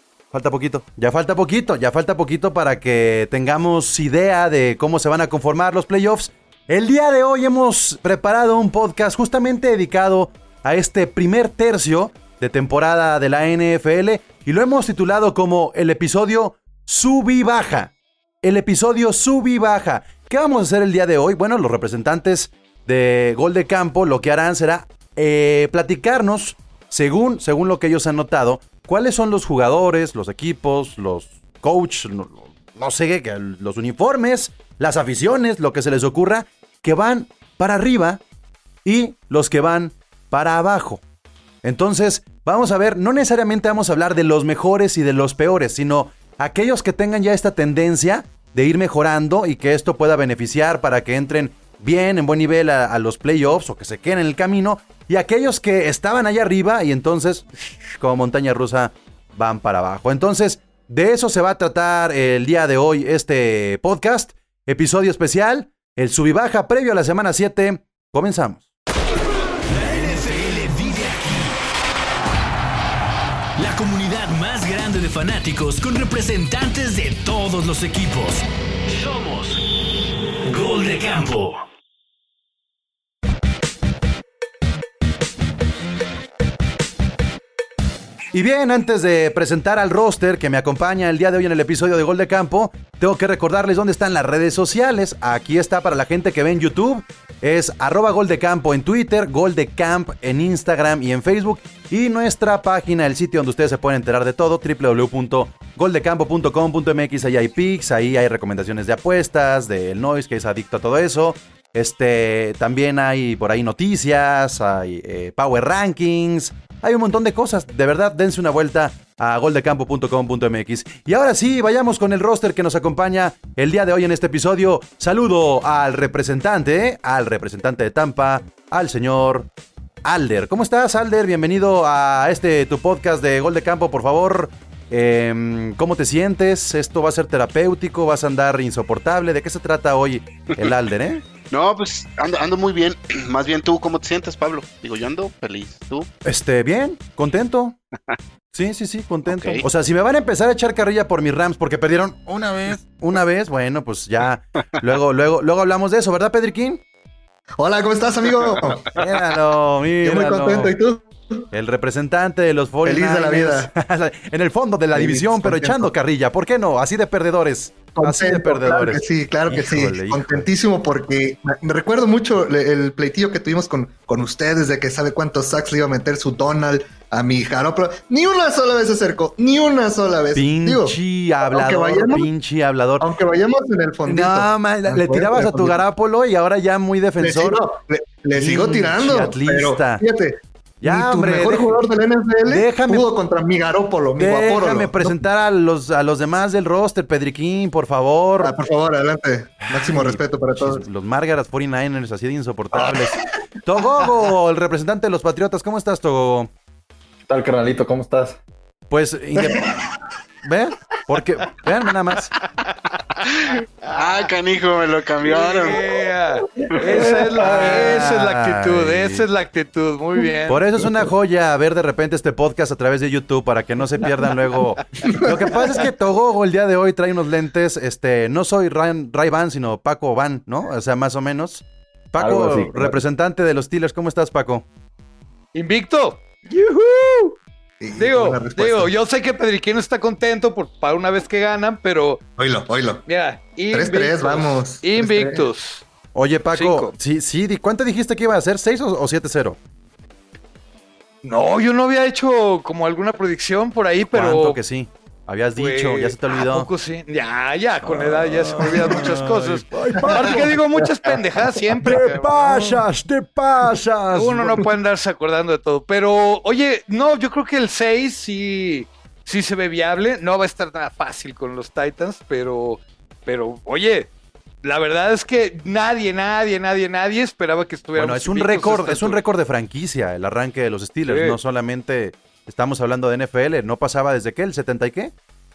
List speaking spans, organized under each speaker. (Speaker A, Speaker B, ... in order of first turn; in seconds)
Speaker A: 0.3-38.2, 38.8-41.0, 41.6-57.5, 58.0-68.7, 88.3-129.5, 130.0-141.2, 146.2-147.8, 148.5-156.8, 158.9-160.7, 161.5-170.5, 180.3-183.1, 184.1-187.6, 188.3-190.0, 190.8-191.8, 192.5-193.1, 194.2-198.5, 199.6-206.5, 208.9-209.9, 210.4-212.3, 217.3-219.2, 220.5-234.6, 246.1-249.6, 254.1-256.7, 257.8-260.6, 261.8-264.6, 277.9-285.1
Speaker B: 69.7-71.5, 73.6-79.6, 80.5-81.6
Speaker C: 141.5-146.1, 149.3-149.6, 213.3-215.9
Speaker D: 157.6-158.8, 160.0-161.4, 162.8-163.7, 164.9-165.9, 167.9-182.3, 183.0-185.8, 187.2-195.2, 198.4-200.8, 202.7-203.0, 225.0-225.6, 237.8-238.9, 242.4-243.0, 243.7-245.5
Speaker E: 207.3-208.4, 232.2-233.0
Speaker F: 213.9-214.3, 215.2-220.6, 235.5-236.7, 237.9-242.2, 243.1-245.8, 246.5-246.9, 251.2-254.6, 255.6-262.8, 264.1-274.1, 274.6-279.2, 281.1-281.4